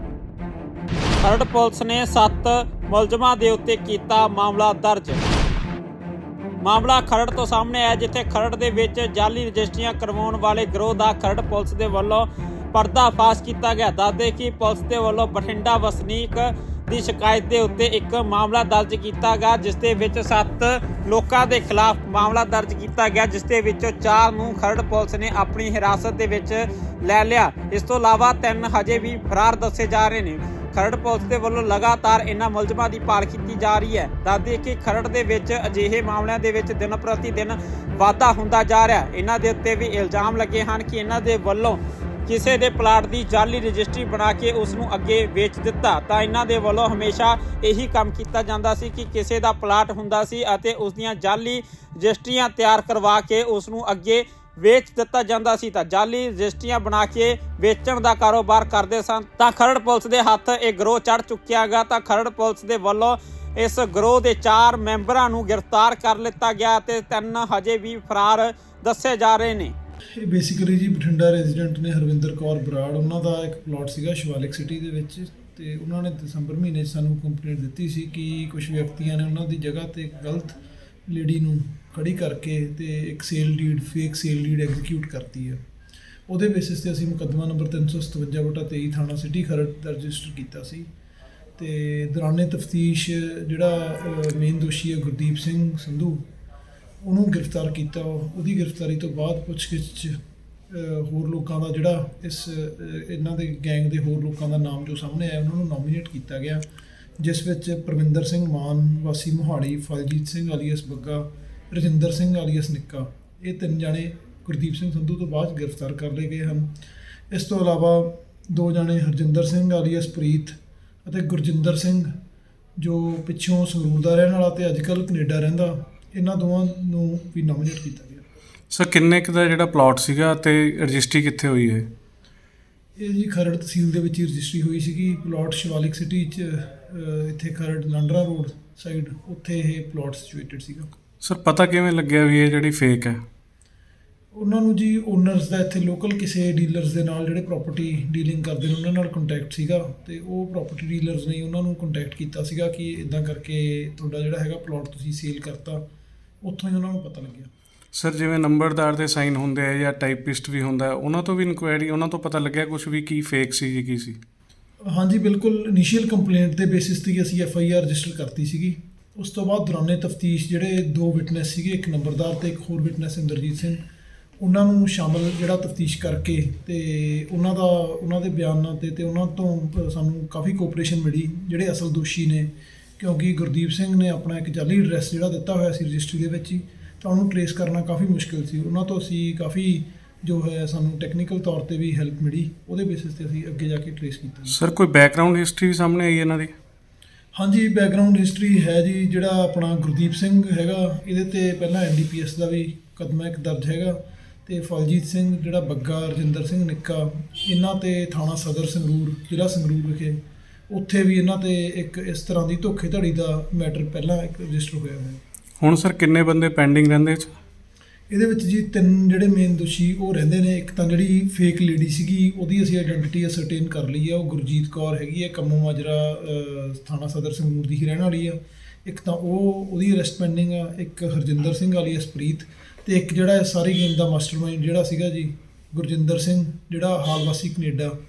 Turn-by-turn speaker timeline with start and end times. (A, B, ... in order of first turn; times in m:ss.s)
0:01.2-0:05.2 A
0:06.6-1:09.7 A
1:10.2-1:25.6 B
1:26.3-1:30.9 B
1:31.6-1:36.2 B
1:37.0-1:46.6 B
1:47.2-1:56.7 B
1:57.3-2:02.1 B
2:02.8-2:08.2 B
2:08.7-2:11.8 C
2:13.0-2:20.9 B
2:21.2-2:23.2 C
2:24.3-2:35.8 B
2:36.4-2:37.5 B
2:37.9-2:44.2 C
2:44.8-2:53.8 B
2:54.4-3:14.6 B
3:14.5-3:16.5 C
3:17.3-3:35.2 B
3:35.6-3:37.3 C
3:38.1-3:57.9 B